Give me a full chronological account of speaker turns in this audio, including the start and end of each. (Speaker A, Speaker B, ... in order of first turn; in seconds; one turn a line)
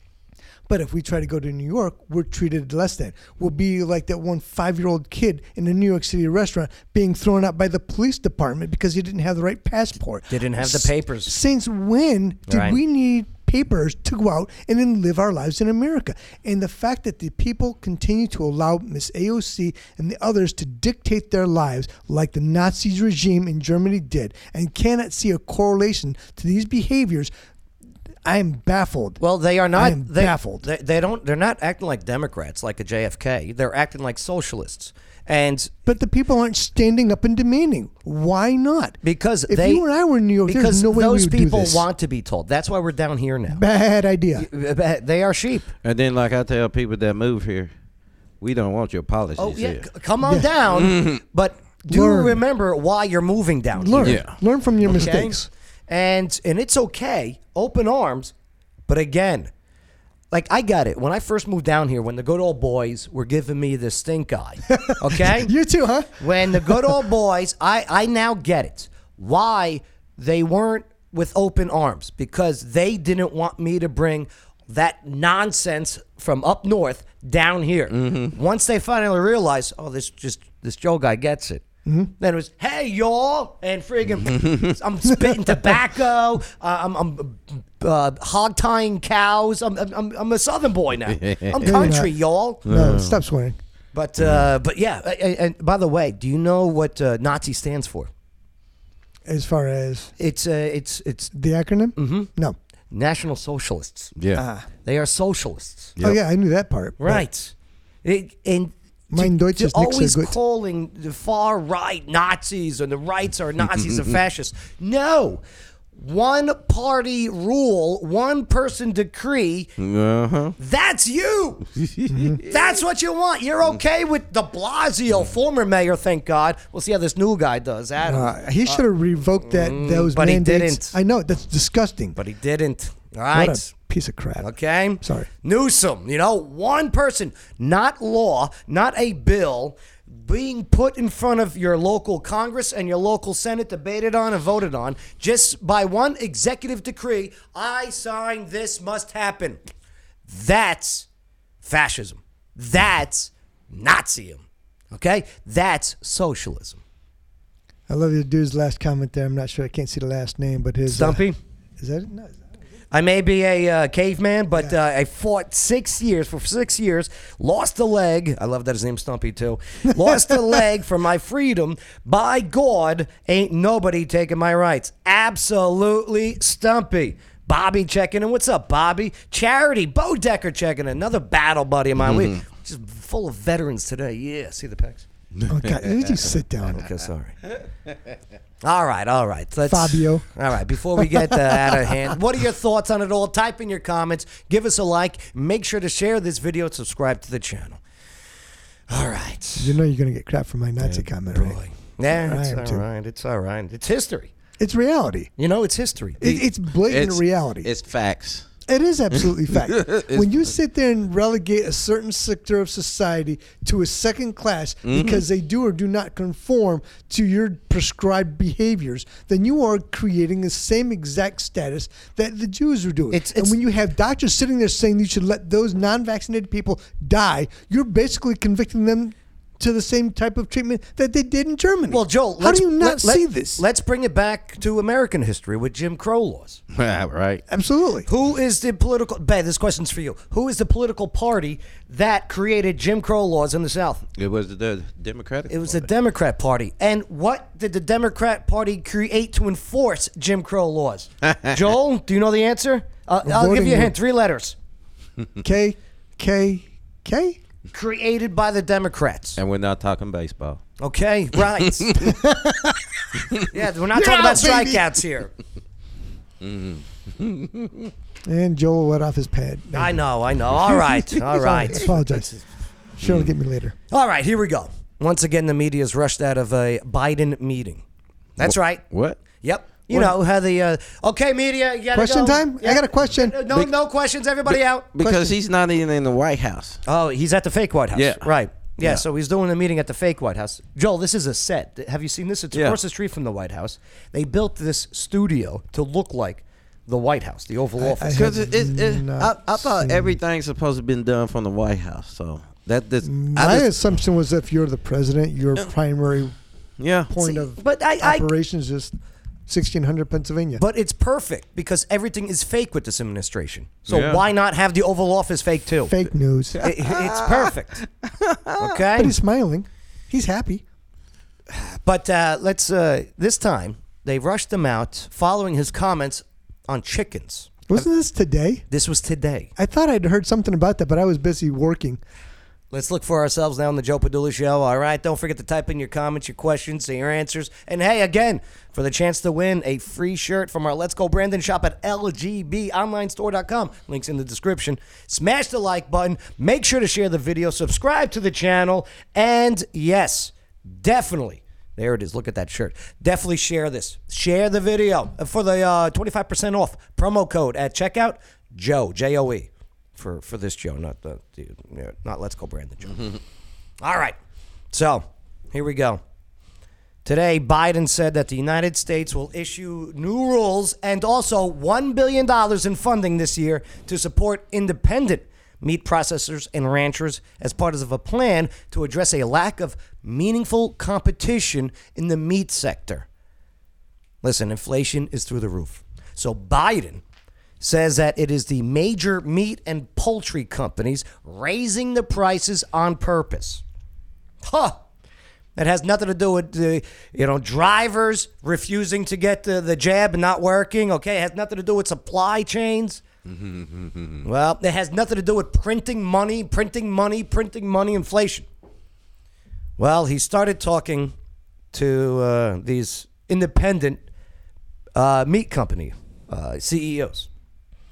Speaker A: 0.7-27.3
Speaker B: 10.3-11.3
Speaker B: 12.5-12.8
Speaker A: 28.2-29.2
Speaker B: 29.2-35.7
Speaker A: 29.7-30.6
Speaker A: 35.9-41.9
Speaker B: 39.0-39.9
Speaker B: 40.4-43.6
Speaker A: 43.5-44.5
Speaker B: 44.3-45.7
Speaker C: 45.8-47.7
Speaker C: 48.4-49.9
Speaker B: 49.4-54.2
Speaker A: 50.2-50.5
Speaker C: 50.7-51.2
Speaker A: 51.9-52.4
Speaker A: 53.8-55.5
Speaker C: 54.0-54.4
Speaker B: 54.8-58.3
Speaker B: 58.9-59.5
Speaker B: 60.3-65.5
Speaker A: 64.8-67.0
Speaker B: 66.2-81.6
Speaker C: 78.0-78.3
Speaker A: 81.8-82.1
Speaker B: 82.2-92.6
Speaker C: 84.3-84.7
Speaker C: 91.1-91.9
Speaker A: 91.6-92.1
Speaker A: 92.6-93.6
Speaker C: 92.7-93.2
Speaker B: 93.9-98.1
Speaker A: 99.3-100.1
Speaker B: 100.2-101.3
Speaker A: 101.3-102.6
Speaker B: 102.0-102.3
Speaker B: 102.9-104.1
Speaker C: 104.2-104.4
Speaker A: 104.3-104.7
Speaker B: 104.8-106.0
Speaker A: 106.0-107.2
Speaker B: 107.0-115.4
Speaker A: 109.1-110.3
Speaker B: 115.9-119.7
Speaker C: 119.8-120.5
Speaker B: 120.6-121.7
Speaker C: 121.8-122.3
Speaker A: 122.1-122.4
Speaker B: 122.4-128.8
Speaker A: 128.0-132.2
Speaker B: 129.4-130.9
Speaker B: 132.2-133.7
Speaker A: 133.3-134.5
Speaker B: 134.4-149.6
Speaker A: 135.0-135.3
Speaker B: 150.3-151.1
Speaker B: 151.6-156.8
Speaker A: 157.9-161.2
Speaker B: 160.9-161.4
Speaker A: 161.8-162.4
Speaker B: 162.9-185.1
Speaker A: 185.5-186.8
Speaker B: 186.7-187.4
Speaker B: 188.6-197.8
Speaker A: 189.7-190.3
Speaker A: 191.0-191.5
Speaker B: 198.9-199.8
Speaker A: 199.6-201.6
Speaker B: 200.8-204.3
Speaker A: 202.1-202.8
Speaker A: 204.6-205.3
Speaker B: 205.4-206.5
Speaker A: 206.2-207.7
Speaker C: 206.9-208.5
Speaker A: 208.7-233.6
Speaker C: 209.5-210.4
Speaker C: 214.8-215.2
Speaker B: 223.1-223.6
Speaker B: 231.9-236.6
Speaker C: 236.7-237.4
Speaker A: 237.5-238.1
Speaker B: 238.1-244.0
Speaker C: 244.2-245.9
Speaker B: 245.5-254.6
Speaker A: 253.2-253.9
Speaker A: 255.4-257.4
Speaker B: 257.7-259.4
Speaker C: 259.4-260.6
Speaker B: 260.8-262.1
Speaker A: 262.0-262.8
Speaker B: 263.5-265.3
Speaker A: 263.9-264.9
Speaker C: 266.4-267.9
Speaker A: 268.2-270.0
Speaker B: 269.7-271.9
Speaker A: 270.6-272.4
Speaker A: 273.0-273.7
Speaker C: 273.0-273.3
Speaker B: 273.9-277.8
Speaker B: 278.4-278.8
Speaker C: 278.4-279.2
Speaker B: 279.4-284.9
Speaker A: 281.9-283.4
Speaker C: 284.5-286.8
Speaker A: 285.0-285.3
Speaker B: 286.9-298.3
Speaker C: 287.9-288.3
Speaker C: 292.5-292.8
Speaker A: 297.8-300.2
Speaker C: 298.1-303.7
Speaker A: 303.0-306.3
Speaker C: 306.8-307.1
Speaker A: 307.1-308.9
Speaker B: 307.2-308.3
Speaker A: 309.5-310.6
Speaker B: 310.6-315.9
Speaker C: 313.9-314.2
Speaker A: 315.9-316.6
Speaker B: 316.6-317.8
Speaker C: 316.6-317.5
Speaker C: 318.2-318.7
Speaker B: 318.6-319.1
Speaker A: 319.0-320.6
Speaker B: 321.5-327.9
Speaker A: 327.7-328.6
Speaker B: 328.7-329.5
Speaker A: 329.6-332.0
Speaker B: 332.7-363.1
Speaker B: 363.8-364.2
Speaker B: 364.7-366.0
Speaker B: 367.0-383.1
Speaker B: 384.2-387.0
Speaker B: 387.6-393.6
Speaker B: 394.4-394.8
Speaker B: 395.6-403.0
Speaker C: 403.2-404.2
Speaker B: 404.2-408.5
Speaker B: 409.8-411.1
Speaker B: 411.7-414.0
Speaker B: 414.9-417.3